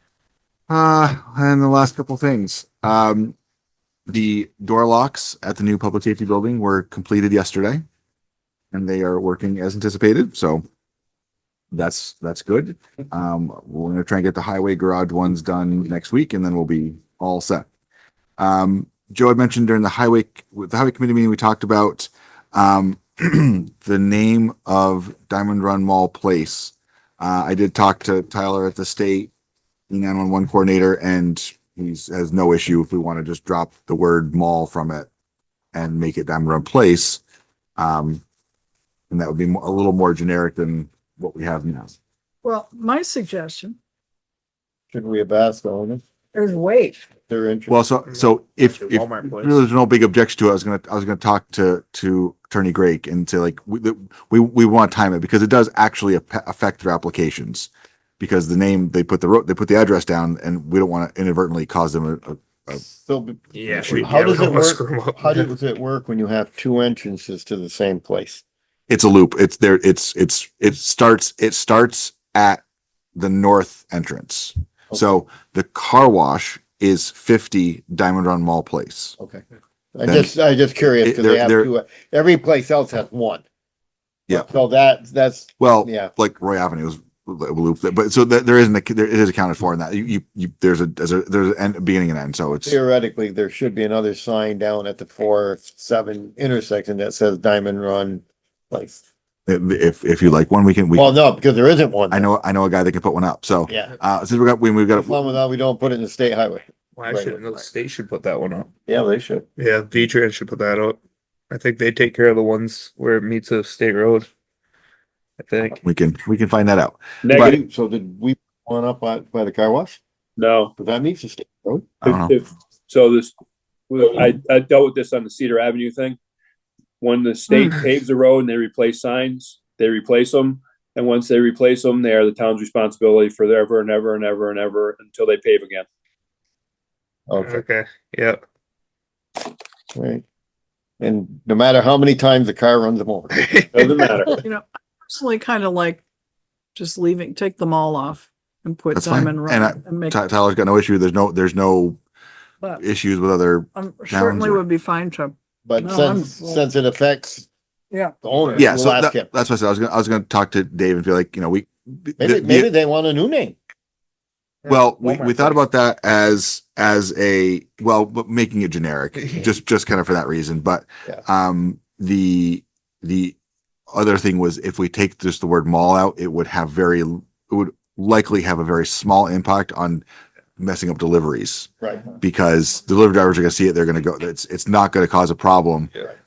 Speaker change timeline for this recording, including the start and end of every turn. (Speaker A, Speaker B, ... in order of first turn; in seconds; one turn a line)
Speaker A: 0.7-3.3
Speaker A: 4.1-7.8
Speaker A: 8.7-10.6
Speaker A: 11.7-17.7
Speaker A: 18.4-29.3
Speaker A: 29.9-35.1
Speaker A: 35.7-37.2
Speaker A: 37.8-38.2
Speaker A: 39.1-41.9
Speaker B: 42.4-43.8
Speaker C: 44.9-46.0
Speaker B: 46.3-47.0
Speaker C: 47.3-47.8
Speaker A: 47.7-62.8
Speaker D: 48.8-49.6
Speaker C: 62.8-68.4
Speaker D: 63.5-65.5
Speaker A: 68.9-72.6
Speaker A: 73.2-79.2
Speaker C: 79.2-79.4
Speaker C: 79.9-83.4
Speaker A: 80.0-80.3
Speaker A: 81.0-81.7
Speaker C: 84.3-86.1
Speaker A: 85.6-92.8
Speaker C: 92.6-99.0
Speaker A: 99.5-101.1
Speaker C: 100.9-102.3
Speaker A: 102.1-105.2
Speaker C: 103.7-103.9
Speaker C: 104.9-107.6
Speaker D: 107.0-108.7
Speaker C: 108.9-109.5
Speaker D: 109.6-111.0
Speaker D: 111.5-114.3
Speaker D: 115.4-115.8
Speaker A: 115.8-117.5
Speaker E: 117.2-117.5
Speaker C: 117.3-120.0
Speaker E: 120.4-120.7
Speaker C: 120.8-121.6
Speaker A: 121.7-122.3
Speaker E: 122.0-123.3
Speaker E: 123.9-126.2
Speaker E: 127.0-135.8
Speaker B: 127.5-127.8
Speaker C: 137.3-137.6
Speaker D: 137.4-138.4
Speaker C: 139.9-140.2
Speaker C: 141.0-143.7
Speaker D: 143.3-144.1
Speaker E: 143.7-144.4
Speaker B: 144.3-146.0
Speaker B: 146.7-150.2
Speaker A: 148.9-152.0
Speaker A: 152.8-154.6
Speaker B: 153.7-156.6
Speaker C: 155.6-157.5
Speaker C: 158.2-159.3
Speaker A: 158.6-162.7
Speaker C: 162.2-163.6
Speaker C: 164.6-165.6
Speaker A: 164.7-173.3
Speaker A: 173.9-180.0
Speaker A: 180.6-185.9
Speaker C: 181.8-182.1